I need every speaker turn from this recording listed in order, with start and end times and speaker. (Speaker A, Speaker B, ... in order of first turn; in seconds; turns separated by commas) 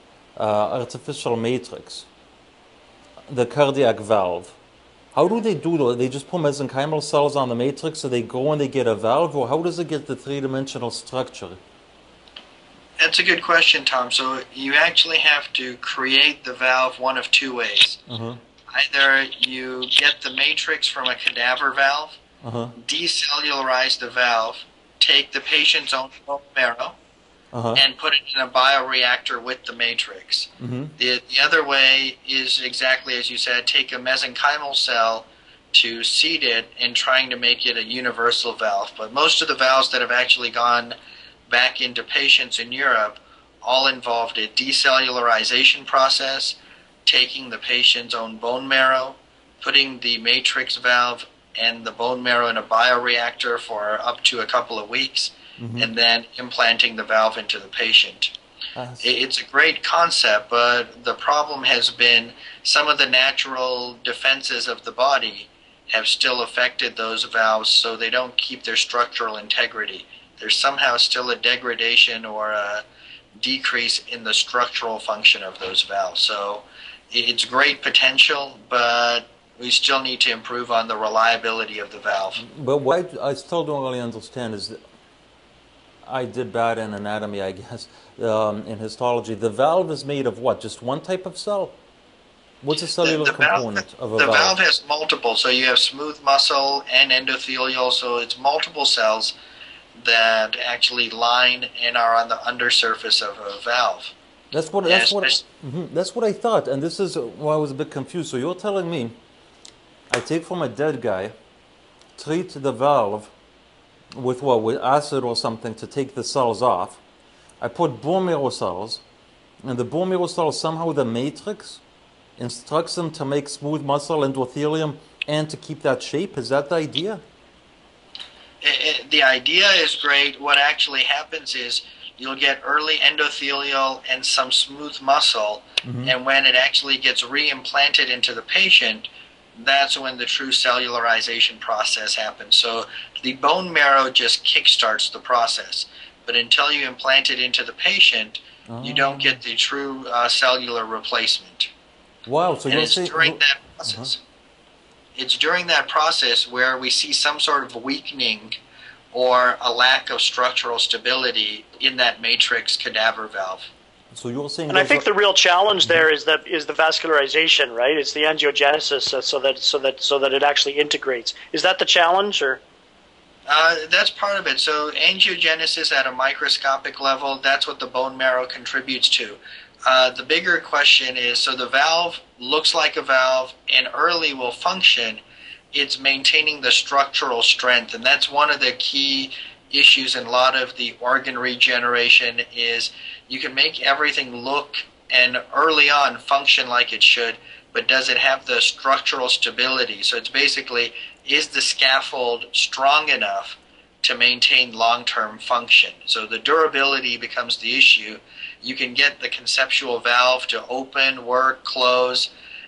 Speaker A: 0.4-2.1, Speaker A: 3.3-4.6, Speaker A: 5.1-11.6, Speaker B: 13.0-18.0, Speaker A: 18.1-18.4, Speaker B: 18.7-22.2, Speaker A: 22.4-22.7, Speaker B: 22.8-27.0, Speaker A: 27.5-27.8, Speaker B: 27.8-41.0, Speaker A: 30.6-30.9, Speaker B: 41.5-58.3, Speaker A: 55.6-55.9, Speaker A: 58.8-59.1, Speaker B: 59.0-72.8, Speaker B: 73.4-82.4, Speaker A: 82.4-84.8, Speaker A: 86.1-91.8, Speaker A: 92.6-94.6, Speaker B: 93.0-99.3, Speaker B: 100.0-104.1, Speaker A: 104.5-109.2, Speaker B: 104.8-105.4, Speaker A: 110.1-111.3, Speaker A: 112.2-113.3, Speaker A: 114.1-117.0, Speaker A: 117.6-119.0, Speaker A: 119.6-121.8, Speaker A: 122.4-127.2, Speaker B: 128.6-151.7, Speaker A: 135.8-136.1, Speaker A: 148.7-149.4, Speaker A: 152.3-154.1, Speaker B: 152.7-154.2, Speaker B: 155.2-158.6, Speaker B: 159.1-163.7, Speaker A: 164.1-165.1, Speaker C: 164.7-172.6, Speaker B: 173.5-185.2, Speaker B: 185.7-212.3